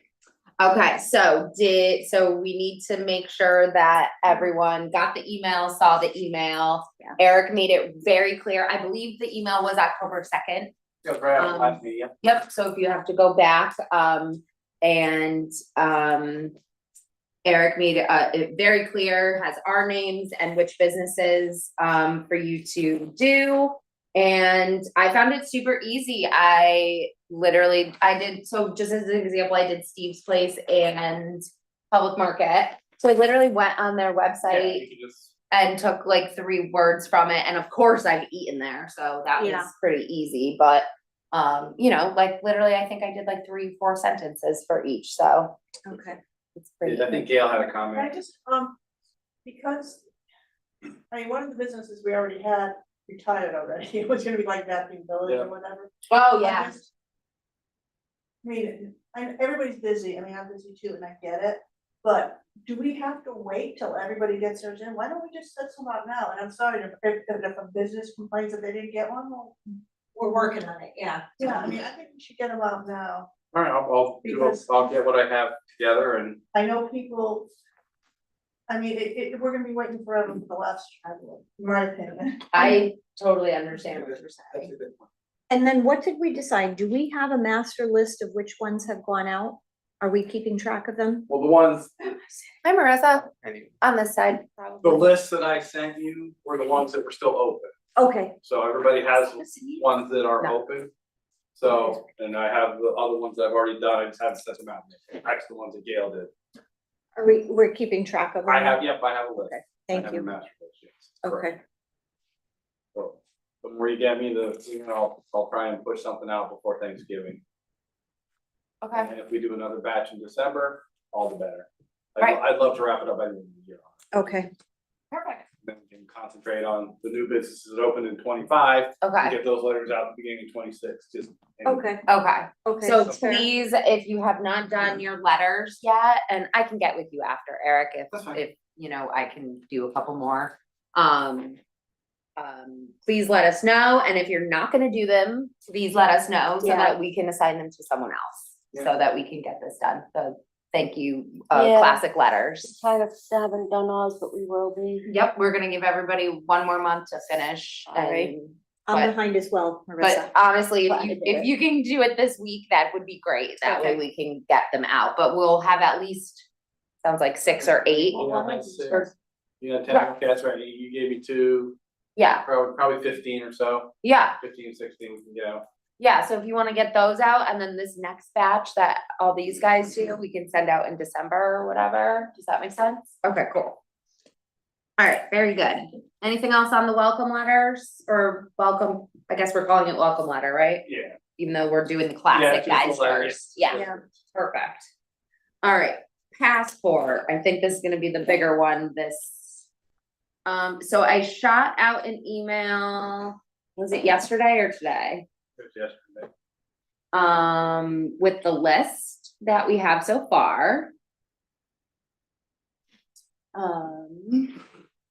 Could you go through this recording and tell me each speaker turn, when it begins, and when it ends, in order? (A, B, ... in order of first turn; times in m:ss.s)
0:00.6-0:10.7 A
0:11.0-0:12.1 B
0:11.4-0:16.5 A
0:17.4-0:34.8 A
0:34.4-0:35.3 B
0:35.5-0:45.6 A
0:39.4-0:39.7 C
0:45.8-0:46.2 C
0:46.6-0:47.3 A
0:46.8-0:48.1 B
0:47.9-0:48.8 D
0:49.4-0:50.0 D
0:51.1-0:56.9 D
0:56.1-0:56.7 A
0:58.4-1:09.6 D
1:10.1-1:11.2 C
1:11.4-1:13.3 D
1:13.5-1:16.4 B
1:14.2-1:14.7 D
1:16.5-1:17.5 D
1:18.7-1:22.8 D
1:22.5-1:24.7 A
1:25.5-1:31.2 C
1:31.3-1:32.0 B
1:32.6-1:33.3 A
1:33.8-1:35.1 A
1:34.8-1:37.7 B
1:38.0-1:38.3 C
1:38.4-1:40.9 B
1:39.5-1:39.8 C
1:41.6-1:46.3 B
1:47.2-1:50.2 C
1:48.4-1:51.5 B
1:51.2-1:51.6 C
1:52.9-1:57.4 B
1:58.8-1:59.1 A
1:59.0-2:04.0 B
2:04.1-2:04.5 C
2:05.1-2:05.4 A
2:05.6-2:11.8 B
2:09.0-2:09.4 A
2:11.6-2:12.0 C
2:12.1-2:21.6 A
2:12.6-2:13.5 C
2:18.1-2:18.4 B
2:22.4-2:32.8 A
2:26.6-2:26.9 C
2:31.5-2:32.0 E
2:32.7-2:35.1 E
2:35.0-2:39.1 A
2:37.9-2:38.3 E
2:38.9-2:40.3 C
2:40.0-2:46.5 A
2:40.9-2:41.5 E
2:43.6-2:44.0 C
2:47.0-2:48.3 A
2:47.6-2:49.0 B
2:48.3-2:48.9 C
2:49.6-2:51.8 B
2:52.2-2:52.4 A
2:52.4-2:55.6 B
2:54.0-2:54.4 A
2:56.0-3:03.8 A
3:05.0-3:10.8 A
3:10.8-3:11.2 B
3:11.4-3:13.8 A
3:12.3-3:13.9 B
3:13.7-3:14.0 D
3:14.3-3:14.9 A
3:15.6-3:19.6 A
3:20.4-3:25.2 A
3:25.6-3:26.3 B
3:27.1-3:30.9 A
3:33.5-3:34.6 A